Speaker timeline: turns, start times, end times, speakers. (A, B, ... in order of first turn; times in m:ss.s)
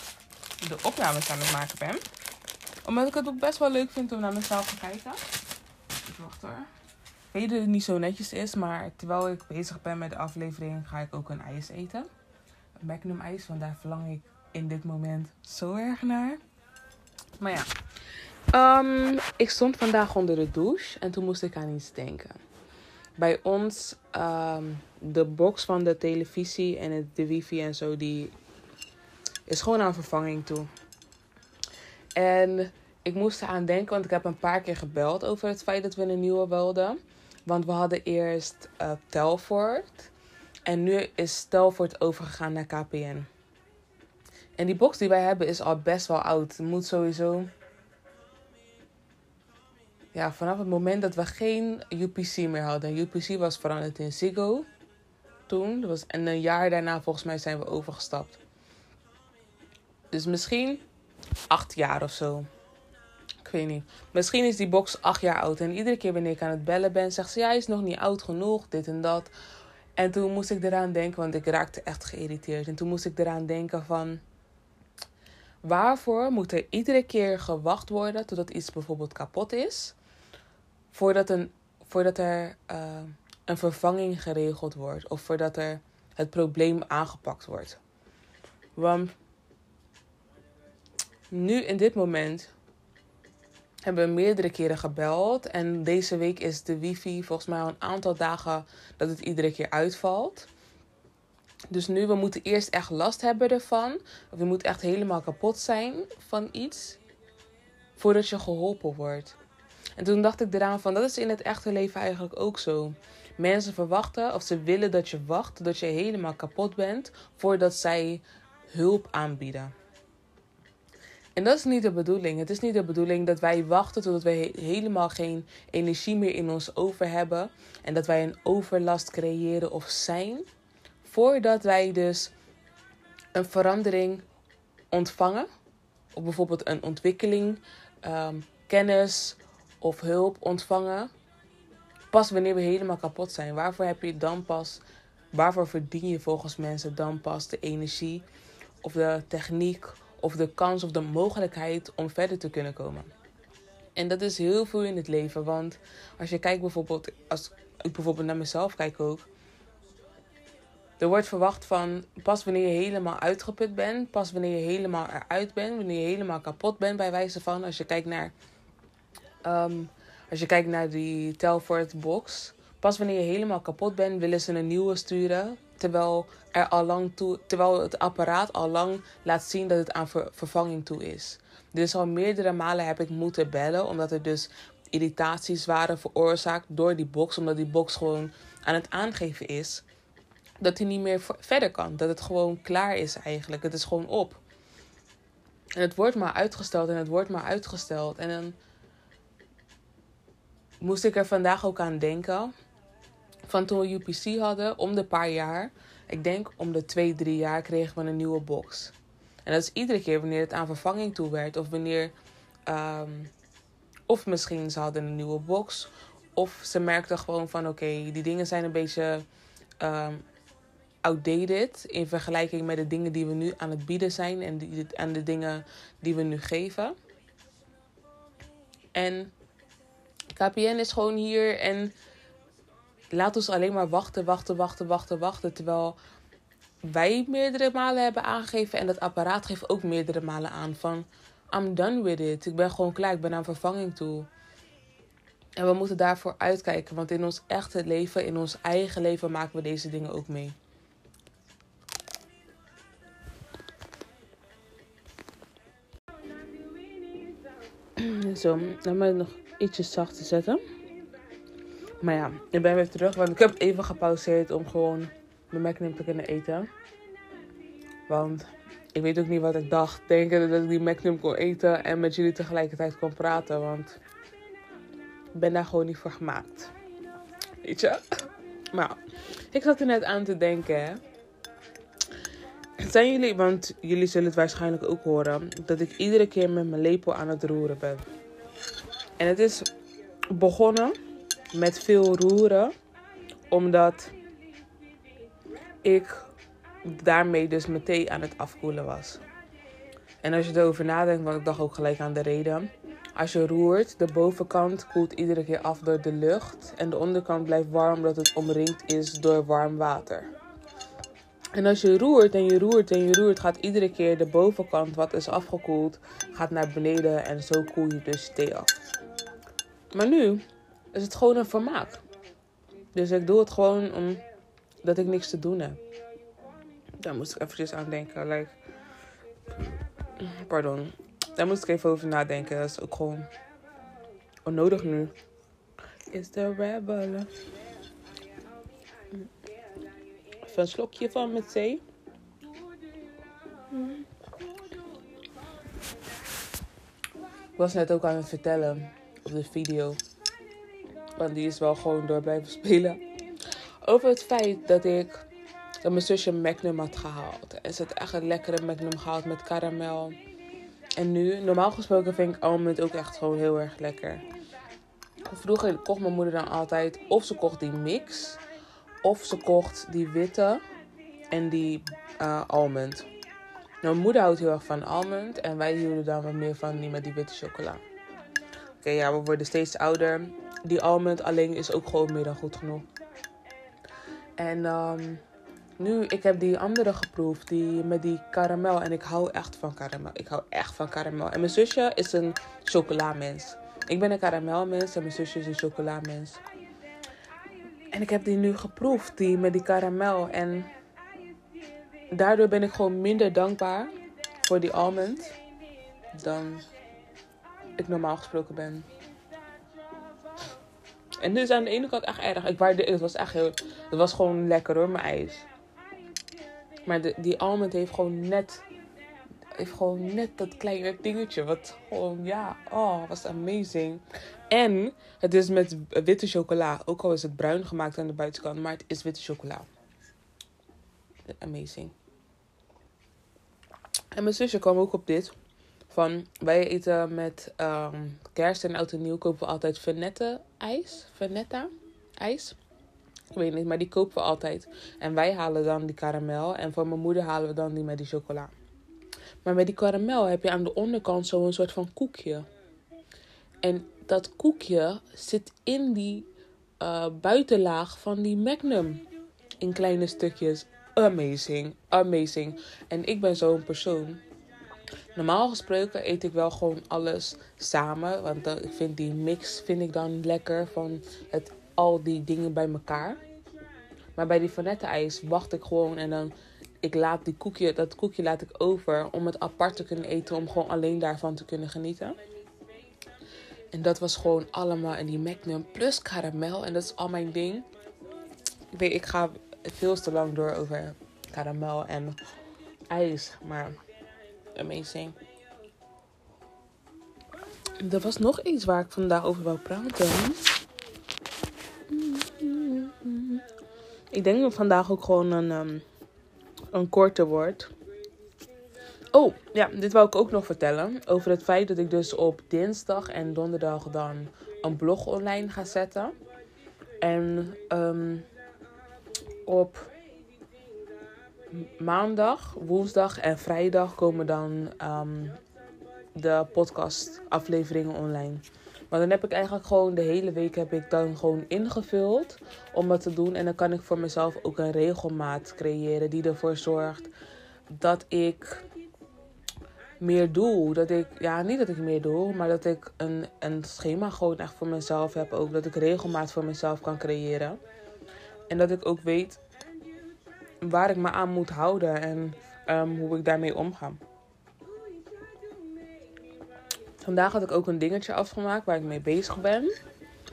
0:00.6-0:02.0 A
0:02.8-0:05.2 A
0:06.0-0:06.7 A
0:07.3-0:12.1 A
0:12.8-0:16.4 A
0:17.4-0:17.7 A
0:18.5-0:22.4 A
0:23.2-0:28.3 A
0:29.5-0:30.7 A
0:32.2-0:40.1 A
0:40.7-0:43.3 A
0:44.6-0:47.5 A
0:50.1-0:54.7 A
0:55.5-0:58.4 A
1:00.1-1:00.8 A
1:01.5-1:02.5 A
1:03.4-1:09.3 A
1:10.0-1:14.2 A
1:15.6-1:20.0 A
1:20.9-1:27.8 A
1:28.8-1:29.2 A
1:31.3-1:32.5 A
1:33.8-1:40.5 A
1:41.7-1:47.0 A
1:48.0-1:49.4 A
1:50.0-1:59.7 A
2:01.4-2:10.5 A
2:11.0-2:12.3 A
2:13.3-2:14.2 A
2:14.9-2:15.5 A
2:16.1-2:21.1 A
2:22.1-2:28.3 A
2:28.8-2:33.1 A
2:34.0-2:39.3 A
2:41.0-2:48.3 A
2:49.4-3:09.8 A
3:10.6-3:14.4 A
3:15.8-3:18.6 A
3:20.8-3:22.5 A
3:23.5-3:28.9 A
3:29.5-3:32.1 A
3:32.7-3:33.3 A
3:34.1-3:39.3 A
3:39.8-3:40.2 A
3:41.0-3:47.0 A
3:48.9-3:49.3 A
3:50.4-3:51.9 A
3:53.1-3:56.0 A
3:56.8-4:04.3 A
4:05.6-4:10.6 A
4:18.0-4:20.6 A
4:22.0-4:26.7 A
4:28.1-4:34.0 A
4:35.3-4:36.7 A
4:37.6-4:41.0 A
4:42.8-4:48.1 A
4:49.2-4:49.7 A
4:50.3-4:51.0 A
4:51.5-4:52.7 A
4:53.5-4:54.1 A
4:55.8-4:56.2 A
4:56.8-4:59.2 A
5:00.2-5:10.3 A
5:11.6-5:18.8 A
5:19.9-5:22.0 A
5:22.9-5:24.2 A
5:24.8-5:25.8 A
5:27.0-5:28.6 A
5:30.2-5:33.3 A
5:34.4-5:35.1 A
5:36.1-5:37.4 A
5:40.4-5:41.8 A
5:47.6-5:50.0 A
5:51.2-5:53.0 A
5:53.8-5:55.2 A
5:55.8-6:00.2 A
6:01.0-6:04.2 A
6:05.3-6:08.4 A
6:09.0-6:10.6 A
6:11.3-6:13.1 A
6:13.8-6:17.8 A
6:18.8-6:22.9 A
6:24.4-6:25.2 A
6:25.8-6:36.4 A
6:37.9-6:40.7 A
6:42.1-6:45.4 A
6:46.2-6:46.6 A
6:47.8-6:48.9 A
6:51.2-6:55.5 A
6:56.9-6:58.6 A
6:59.6-7:09.7 A
7:11.3-7:11.9 A
7:14.1-7:15.3 A
7:15.9-7:22.6 A
7:23.3-7:28.5 A
7:29.4-7:32.5 A
7:33.6-7:36.3 A
7:36.8-7:39.1 A
7:39.6-7:44.2 A
7:45.2-7:53.2 A
7:54.2-8:02.2 A
8:03.7-8:07.7 A
8:08.7-8:12.2 A
8:12.9-8:13.8 A
8:14.5-8:15.2 A
8:17.8-8:20.5 A
8:21.9-8:23.4 A
8:24.1-8:25.8 A
8:26.7-8:27.7 A
8:29.1-8:36.2 A
8:37.0-8:38.3 A
8:39.4-8:39.9 A
8:41.5-8:45.4 A
8:46.2-8:57.1 A
8:57.7-8:58.6 A
9:00.0-9:07.6 A
9:08.5-9:09.4 A
9:10.6-9:14.0 A
9:17.0-9:19.8 A